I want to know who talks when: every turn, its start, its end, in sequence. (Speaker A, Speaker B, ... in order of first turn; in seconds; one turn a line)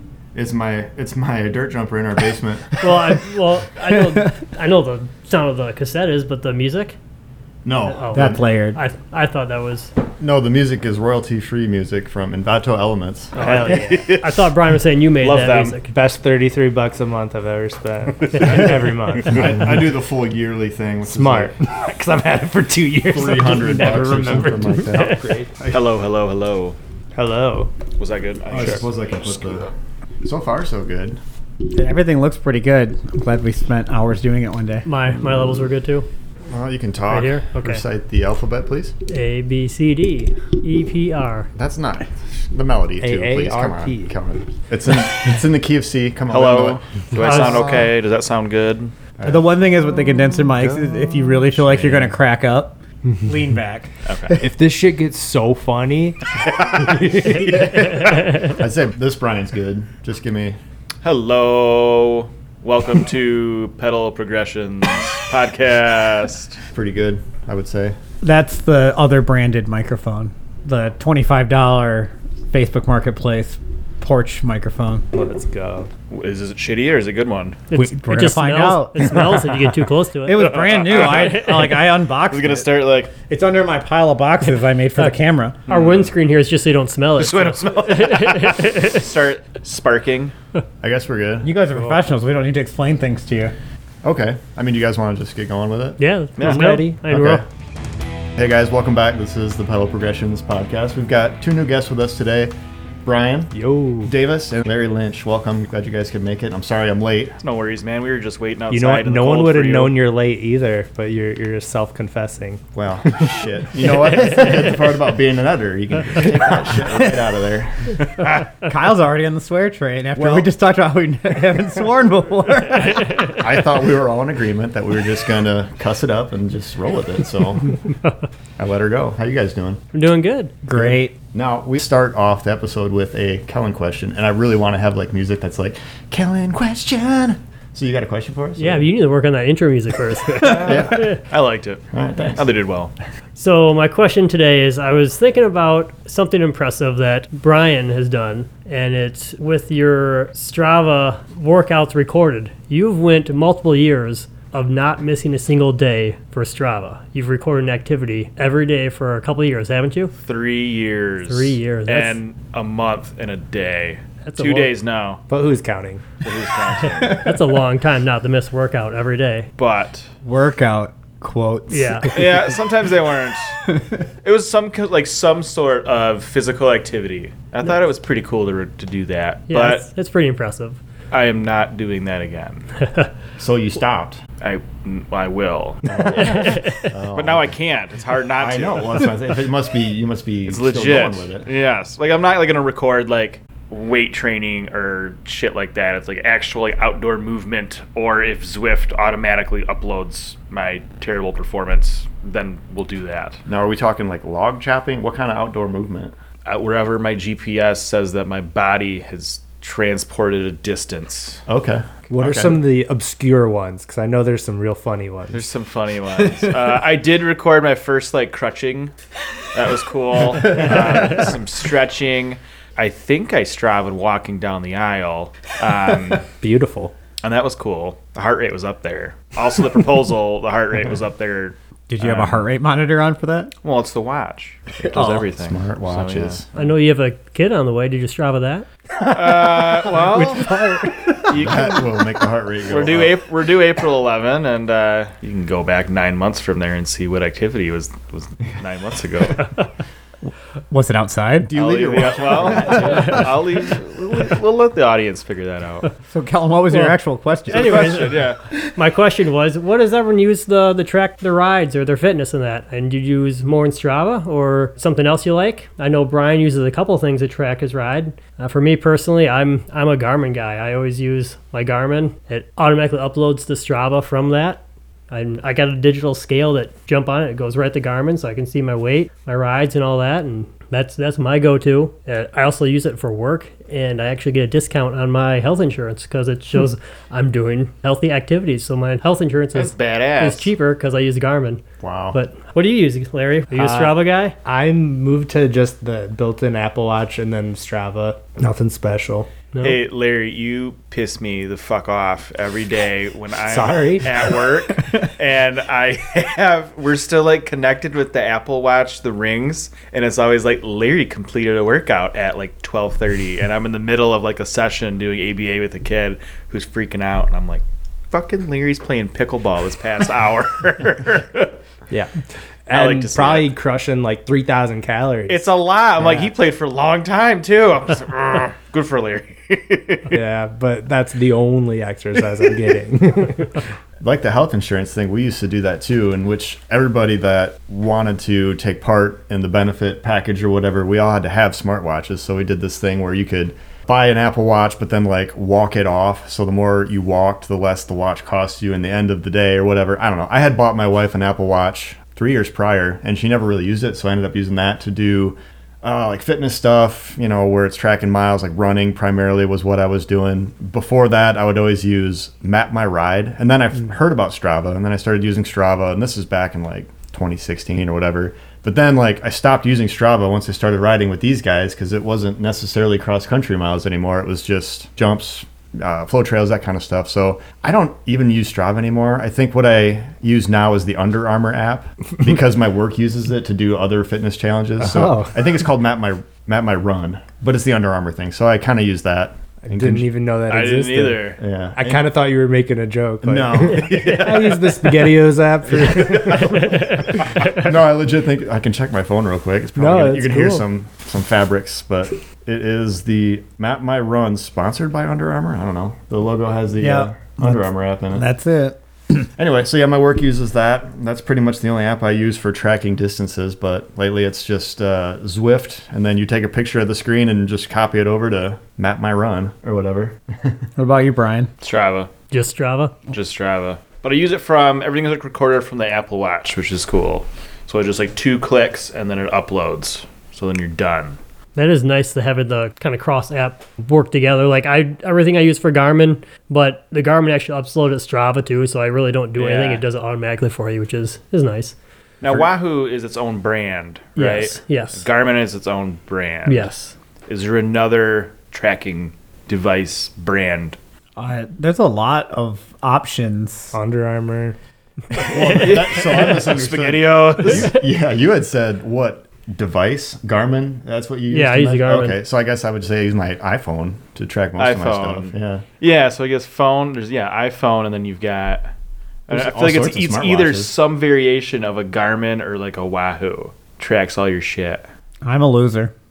Speaker A: 0.3-3.0
Speaker B: 2.8-7.0
Speaker A: 7.6-8.4
Speaker B: 7.9-9.9
Speaker C: 8.1-8.8
Speaker A: 10.2-13.3
Speaker B: 13.4-15.9
Speaker D: 13.4-14.1
Speaker E: 13.4-14.4
Speaker E: 15.2-15.8
Speaker D: 15.9-19.6
Speaker E: 18.2-18.6
Speaker B: 18.3-18.7
Speaker A: 19.2-21.5
Speaker D: 21.1-25.5
Speaker A: 23.1-25.8
Speaker B: 24.9-25.2
Speaker E: 25.7-26.8
Speaker D: 27.2-27.7
Speaker E: 28.0-29.4
Speaker A: 28.5-29.7
Speaker D: 28.6-28.8
Speaker A: 30.2-31.2
Speaker C: 31.7-34.9
Speaker B: 34.9-36.1
Speaker A: 36.5-39.0
Speaker B: 37.1-37.8
Speaker B: 39.1-41.5
Speaker A: 41.5-47.9
Speaker D: 43.0-44.1
Speaker E: 46.3-48.9
Speaker B: 47.2-47.7
Speaker A: 49.2-49.5
Speaker C: 49.2-54.4
Speaker E: 51.6-52.1
Speaker E: 54.0-54.4
Speaker D: 54.4-56.2
Speaker D: 56.8-57.6
Speaker A: 57.1-60.6
Speaker B: 58.1-58.5
Speaker E: 61.0-66.6
Speaker A: 66.6-68.0
Speaker C: 68.2-75.1
Speaker D: 75.1-75.9
Speaker E: 76.1-77.7
Speaker B: 77.7-81.7
Speaker C: 77.7-79.4
Speaker C: 80.2-82.7
Speaker E: 80.4-83.1
Speaker C: 83.3-85.6
Speaker B: 85.7-89.0
Speaker E: 85.7-86.1
Speaker E: 87.2-90.3
Speaker A: 90.8-91.5
Speaker C: 91.4-93.5
Speaker A: 94.0-96.0
Speaker B: 96.0-97.5
Speaker E: 96.4-96.7
Speaker D: 96.4-97.0
Speaker A: 97.1-97.5
Speaker A: 98.4-103.5
Speaker D: 103.5-104.1
Speaker A: 104.0-107.3
Speaker E: 107.4-110.0
Speaker D: 108.7-112.6
Speaker A: 112.8-118.0
Speaker C: 118.6-123.3
Speaker A: 120.2-120.5
Speaker B: 122.9-123.3
Speaker A: 122.9-127.8
Speaker A: 128.6-129.8
Speaker B: 129.9-130.6
Speaker C: 130.7-131.1
Speaker A: 130.7-138.9
Speaker B: 138.6-141.2
Speaker E: 140.4-142.9
Speaker A: 140.6-141.1
Speaker A: 141.9-142.5
Speaker B: 143.4-160.1
Speaker E: 160.2-165.2
Speaker B: 161.3-162.2
Speaker B: 164.2-164.7
Speaker D: 165.3-166.0
Speaker E: 166.2-167.3
Speaker B: 167.1-169.5
Speaker E: 169.6-170.1
Speaker C: 170.2-172.5
Speaker B: 171.7-172.2
Speaker E: 172.1-173.6
Speaker E: 174.2-179.8
Speaker B: 179.5-180.8
Speaker E: 181.1-182.7
Speaker B: 182.8-183.1
Speaker A: 183.4-184.2
Speaker E: 184.4-186.5
Speaker A: 185.9-187.5
Speaker B: 186.2-186.9
Speaker E: 187.1-189.1
Speaker A: 188.4-191.5
Speaker E: 190.5-203.4
Speaker A: 203.5-206.2
Speaker E: 206.5-211.4
Speaker A: 211.5-211.9
Speaker D: 212.1-215.4
Speaker E: 212.2-212.6
Speaker E: 215.3-218.9
Speaker E: 219.5-226.3
Speaker D: 226.4-226.9
Speaker E: 227.2-232.4
Speaker C: 231.9-233.5
Speaker E: 233.6-236.4
Speaker A: 234.9-236.6
Speaker B: 236.6-238.7
Speaker E: 239.1-240.5
Speaker C: 240.0-241.1
Speaker E: 241.3-241.8
Speaker A: 241.3-243.2
Speaker E: 242.7-249.5
Speaker C: 250.7-251.5
Speaker A: 251.4-253.3
Speaker E: 251.6-255.9
Speaker C: 256.1-258.1
Speaker B: 256.7-257.0
Speaker B: 257.5-294.4
Speaker E: 257.5-258.4
Speaker E: 289.5-290.5
Speaker A: 291.8-292.2
Speaker D: 293.5-299.3
Speaker E: 299.6-321.5
Speaker D: 303.5-304.1
Speaker D: 322.7-325.5
Speaker E: 322.7-323.5
Speaker E: 325.3-330.1
Speaker D: 326.0-326.3
Speaker D: 330.1-333.6
Speaker A: 334.0-390.1
Speaker D: 384.8-385.4
Speaker D: 389.6-397.0
Speaker E: 390.5-391.4
Speaker A: 391.4-392.1
Speaker A: 393.2-395.1
Speaker A: 395.7-408.3
Speaker B: 396.6-397.5
Speaker D: 399.8-400.7
Speaker C: 406.8-409.3
Speaker A: 409.4-420.6
Speaker C: 420.8-421.5
Speaker E: 421.6-422.1
Speaker B: 422.3-423.0
Speaker E: 423.1-431.2
Speaker B: 431.6-441.8
Speaker E: 439.4-439.8
Speaker E: 442.2-446.7
Speaker B: 444.2-445.1
Speaker B: 446.5-446.9
Speaker E: 447.3-450.8
Speaker C: 451.2-453.7
Speaker D: 453.7-454.6
Speaker A: 455.3-465.6
Speaker E: 455.4-457.8
Speaker B: 461.3-462.2
Speaker E: 464.6-468.7
Speaker A: 469.3-470.7
Speaker E: 469.3-474.9
Speaker C: 475.2-475.9